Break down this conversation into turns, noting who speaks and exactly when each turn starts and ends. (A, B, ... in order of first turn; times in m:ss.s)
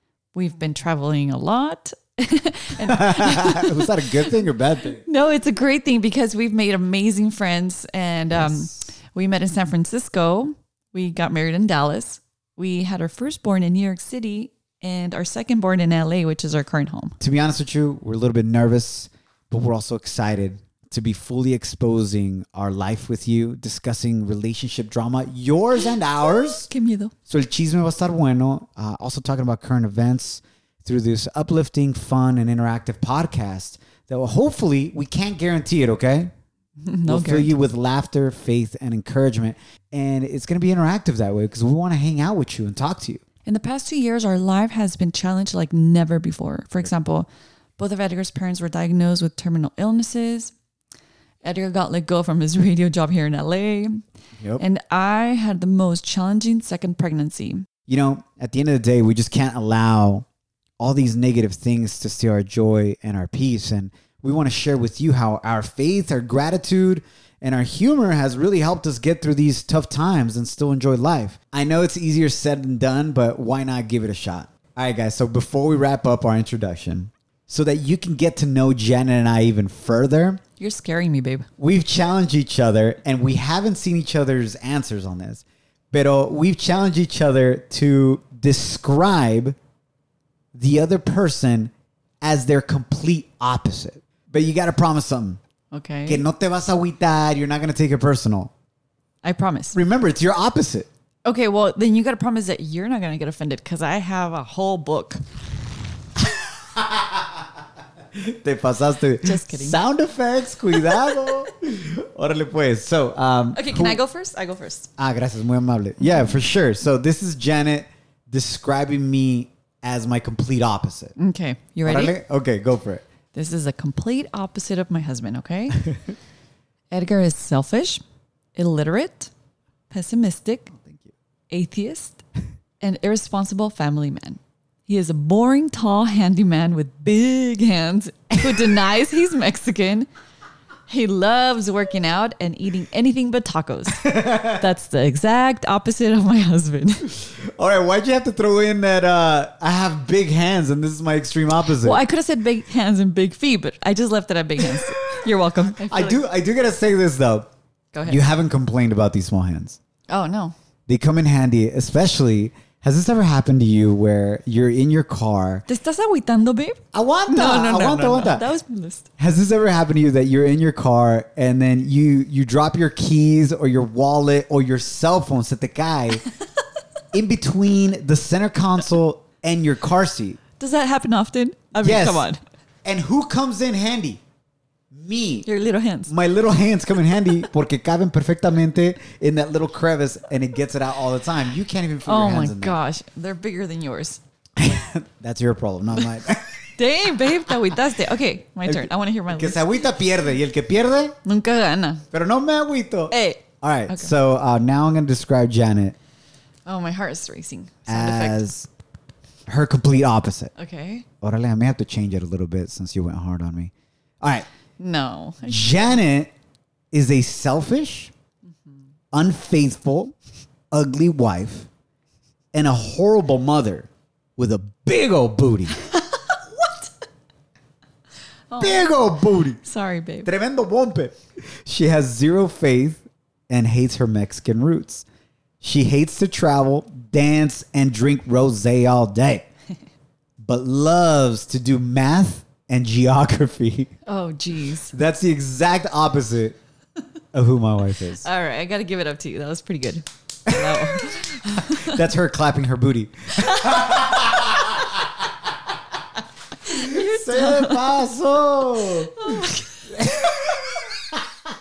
0:00.3-0:04.4 A
0:02.8-0:05.0 B
0:05.0-0:17.2 A
0:08.4-0:08.8 B
0:17.2-0:26.7 B
0:26.5-0:27.1 A
0:27.3-0:36.3 B
0:36.8-0:37.6 A
0:37.1-0:43.2 B
0:43.5-0:50.5 A
0:51.4-0:54.0 A
0:54.6-0:57.7 A
0:57.9-1:00.3 B
1:00.8-1:20.4 B
1:20.6-1:21.5 A
1:21.6-1:29.6 B
1:30.5-1:31.7 B
1:32.2-1:35.4 B
1:35.7-1:36.3 A
1:36.1-1:38.5 B
1:39.2-1:39.8 A
1:39.7-1:40.9 B
1:41.2-1:45.2 A
1:46.6-1:47.4 B
1:48.1-1:54.0 B
1:49.2-1:49.8 A
1:50.8-1:51.4 A
1:53.5-1:54.9 A
1:55.0-2:01.2 B
1:56.0-1:56.4 A
2:01.2-2:02.2 A
2:01.9-2:03.0 B
2:03.3-2:05.9 A
2:06.9-2:08.0 A
2:08.6-2:09.3 A
2:09.9-2:10.7 A
2:10.7-2:11.1 B
2:11.5-2:12.2 A
2:12.8-2:20.1 A
2:20.9-2:27.2 A
2:24.0-2:24.6 B
2:27.2-2:32.0 B
2:31.6-2:36.2 A
2:34.7-2:35.2 B
2:35.8-2:37.5 B
2:37.9-2:38.2 A
2:38.0-2:39.8 B
2:40.1-2:40.6 A
2:40.9-2:45.6 B
2:45.7-2:49.1 A
2:46.9-2:48.5 B
2:49.2-2:56.3 B
2:57.1-3:00.4 B
3:00.6-3:02.4 A
3:01.8-3:02.3 B
3:02.8-3:04.2 B
3:04.9-3:05.5 B
3:05.4-3:06.1 A
3:06.1-3:12.8 B
3:12.1-3:14.2 A
3:14.6-3:16.7 B
3:16.8-3:19.7 A
3:18.7-3:21.2 B
3:21.2-3:22.0 A
3:22.1-3:26.0 B
3:23.1-3:24.1 A
3:26.7-3:28.6 A
3:27.9-3:28.7 B
3:29.5-3:30.5 B
3:30.6-3:31.1 A
3:31.2-3:34.5 B
3:34.8-3:36.0 A
3:35.4-3:36.3 B
3:36.9-3:38.1 B
3:39.1-3:40.2 B
3:40.7-3:41.7 B
3:42.5-3:45.8 B
3:45.9-3:46.9 A
3:48.5-3:49.1 A
3:48.6-3:49.6 B
3:49.6-3:50.3 A
3:50.2-3:55.1 B
3:55.6-3:59.5 B
4:00.4-4:03.9 B
4:04.1-4:04.9 A
4:04.9-4:06.6 B
4:07.3-4:08.3 B
4:08.2-4:12.1 A
4:10.5-4:11.2 B
4:11.8-4:15.2 B
4:13.4-4:14.9 A
4:16.6-4:21.3 B
4:16.7-4:18.1 A
4:19.1-4:19.8 A